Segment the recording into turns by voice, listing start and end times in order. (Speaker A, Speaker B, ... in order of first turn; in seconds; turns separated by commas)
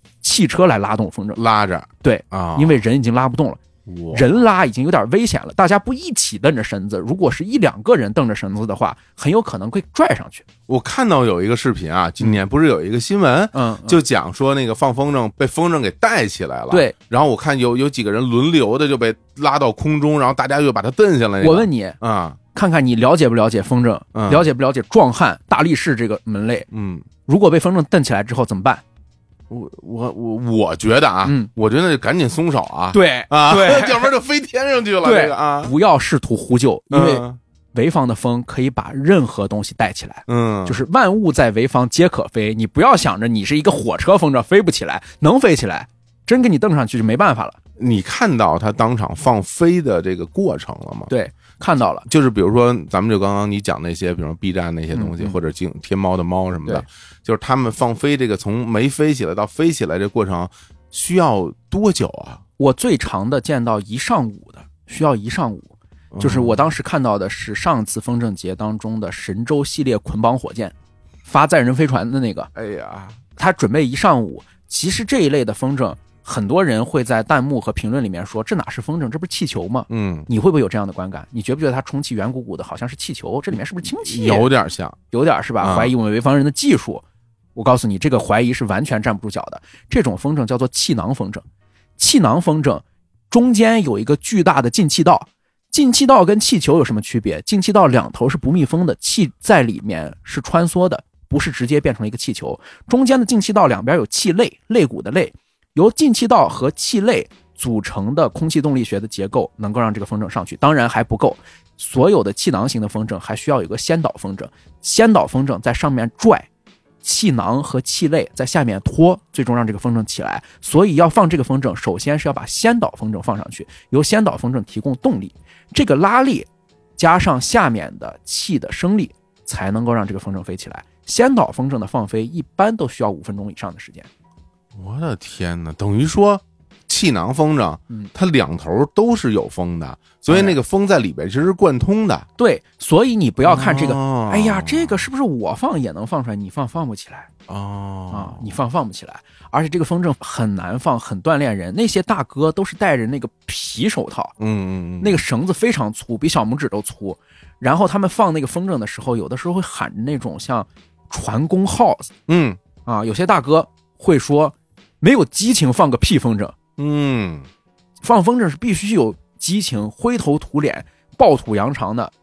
Speaker A: 0.2-1.4, Speaker B: 1.4-2.8, Speaker A: 2.0-3.6, Speaker B: 3.9-4.4, Speaker A: 4.1-10.5, Speaker B: 10.7-22.4, Speaker A: 13.5-14.0, Speaker A: 21.4-22.0, Speaker A: 22.5-26.7, Speaker B: 24.1-24.5, Speaker B: 26.7-27.1, Speaker A: 27.3-28.8, Speaker B: 29.5-35.7, Speaker A: 31.2-31.5, Speaker A: 32.9-34.1, Speaker A: 35.0-47.6, Speaker B: 36.9-37.4, Speaker B: 40.3-40.8, Speaker B: 47.8-51.1, Speaker A: 51.1-52.1, Speaker B: 52.0-62.4, Speaker A: 54.9-55.4, Speaker A: 62.6-70.7, Speaker B: 66.1-66.6, Speaker A: 71.3-72.5, Speaker B: 72.5-73.2, Speaker A: 73.4-84.5, Speaker B: 79.9-80.3, Speaker B: 83.9-85.0, Speaker A: 85.1-87.0, Speaker B: 85.6-85.9, Speaker A: 87.5-91.4, Speaker A: 92.0-116.5, Speaker A: 117.0-126.5, Speaker A: 127.0-134.1, Speaker B: 134.8-142.3, Speaker A: 140.3-140.6, Speaker A: 142.4-147.3, Speaker B: 143.4-145.1, Speaker B: 147.5-148.6, Speaker A: 148.1-154.3, Speaker B: 154.4-155.2, Speaker A: 155.0-162.1, Speaker B: 162.3-162.6, Speaker A: 162.9-166.6, Speaker B: 166.8-167.5, Speaker A: 168.0-172.1